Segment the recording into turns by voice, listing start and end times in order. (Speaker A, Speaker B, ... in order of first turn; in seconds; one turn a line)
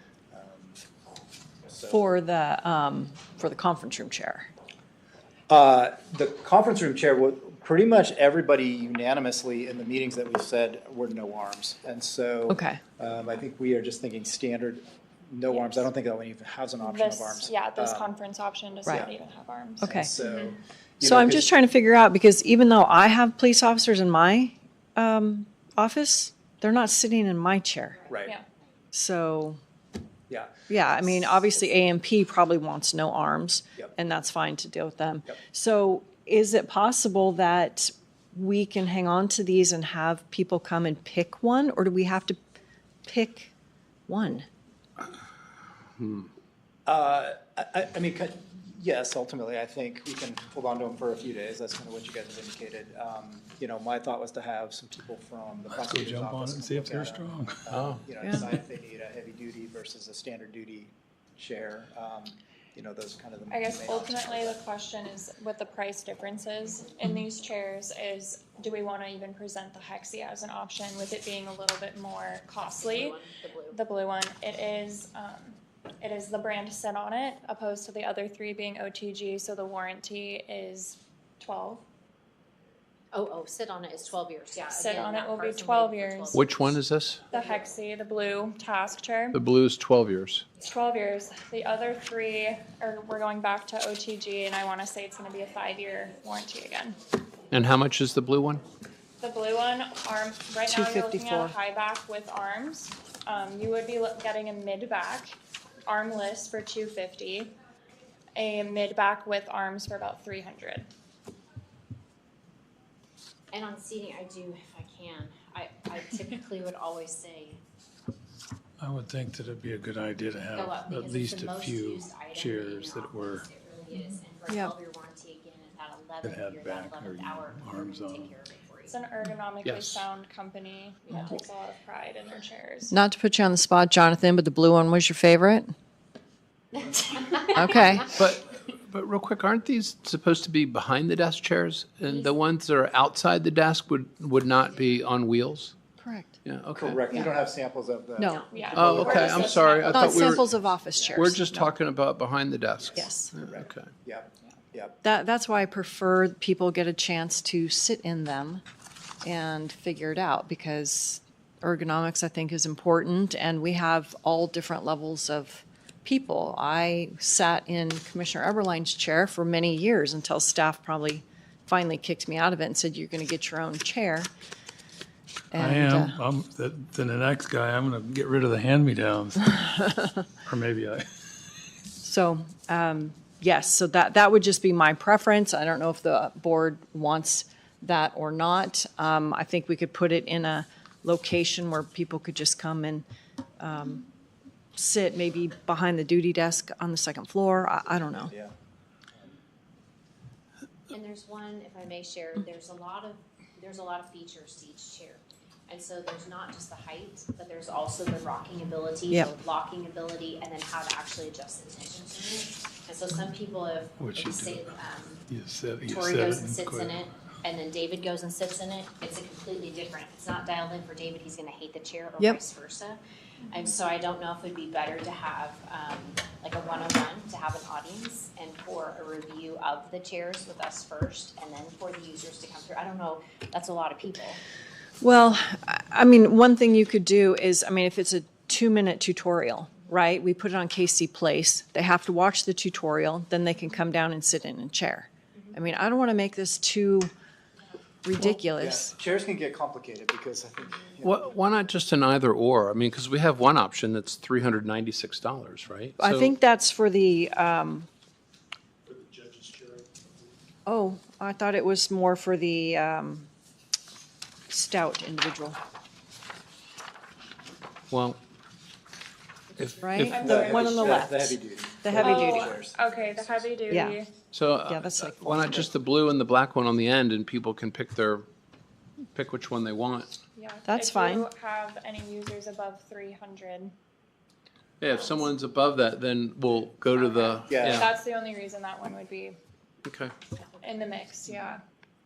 Speaker A: 0.3-0.8
Speaker A: 1.7-2.1
Speaker B: 1.9-4.5
Speaker A: 5.5-18.1
Speaker B: 12.5-12.8
Speaker C: 15.5-15.8
Speaker C: 16.8-19.9
Speaker B: 19.8-20.1
Speaker A: 19.8-21.5
Speaker B: 21.0-28.0
Speaker D: 27.9-28.4
Speaker A: 28.1-28.3
Speaker B: 28.9-29.6
Speaker A: 30.3-31.2
Speaker B: 30.7-42.4
Speaker B: 43.0-43.5
Speaker B: 44.1-44.5
Speaker A: 46.9-64.6
Speaker E: 55.8-57.6
Speaker F: 57.7-58.0
Speaker C: 63.5-73.2
Speaker D: 66.6-67.1
Speaker D: 72.6-73.8
Speaker C: 73.7-81.8
Speaker D: 83.1-86.8
Speaker C: 84.7-86.4
Speaker F: 86.3-87.2
Speaker C: 87.3-89.4
Speaker F: 89.3-90.6
Speaker C: 90.6-97.0
Speaker F: 97.5-98.6
Speaker C: 99.2-105.3
Speaker B: 100.7-101.5
Speaker C: 105.9-107.5
Speaker C: 108.3-110.9
Speaker D: 113.5-117.6
Speaker E: 118.8-123.5
Speaker D: 120.5-129.0
Speaker B: 124.5-124.8
Speaker E: 126.2-128.3
Speaker C: 128.8-132.9
Speaker F: 129.6-130.0
Speaker B: 132.9-135.7
Speaker D: 136.7-138.0
Speaker B: 137.5-138.1
Speaker F: 138.1-145.7
Speaker D: 142.1-142.3
Speaker B: 146.0-146.3
Speaker F: 146.4-147.0
Speaker A: 146.7-149.5
Speaker B: 148.2-149.1
Speaker D: 148.3-150.1
Speaker C: 148.5-150.3
Speaker F: 148.7-150.5
Speaker B: 149.8-151.7
Speaker F: 151.1-153.9
Speaker A: 152.8-155.0
Speaker B: 152.9-153.3
Speaker B: 155.0-158.6
Speaker B: 159.2-174.3
Speaker B: 175.5-176.2
Speaker E: 175.5-179.4
Speaker B: 179.5-180.3
Speaker E: 180.5-181.0
Speaker B: 182.0-193.1
Speaker B: 193.6-194.0
Speaker B: 194.7-198.3
Speaker A: 198.2-198.5
Speaker D: 200.9-215.2
Speaker E: 214.0-217.0
Speaker D: 215.8-234.4
Speaker B: 235.0-247.1
Speaker B: 248.0-248.9
Speaker A: 248.5-251.3
Speaker F: 251.0-256.3
Speaker B: 256.0-257.9
Speaker B: 260.6-263.3
Speaker B: 264.5-265.6
Speaker F: 267.9-268.2
Speaker F: 269.6-270.3
Speaker B: 269.8-272.6
Speaker C: 270.1-270.6
Speaker A: 270.2-273.5
Speaker C: 272.0-274.2
Speaker B: 273.7-274.0
Speaker F: 274.3-278.3
Speaker B: 274.6-275.7
Speaker F: 279.1-280.1
Speaker C: 280.3-283.7
Speaker B: 280.6-281.3
Speaker F: 284.8-287.9
Speaker A: 287.5-287.9
Speaker C: 287.7-289.4
Speaker F: 289.8-290.1
Speaker C: 290.6-291.6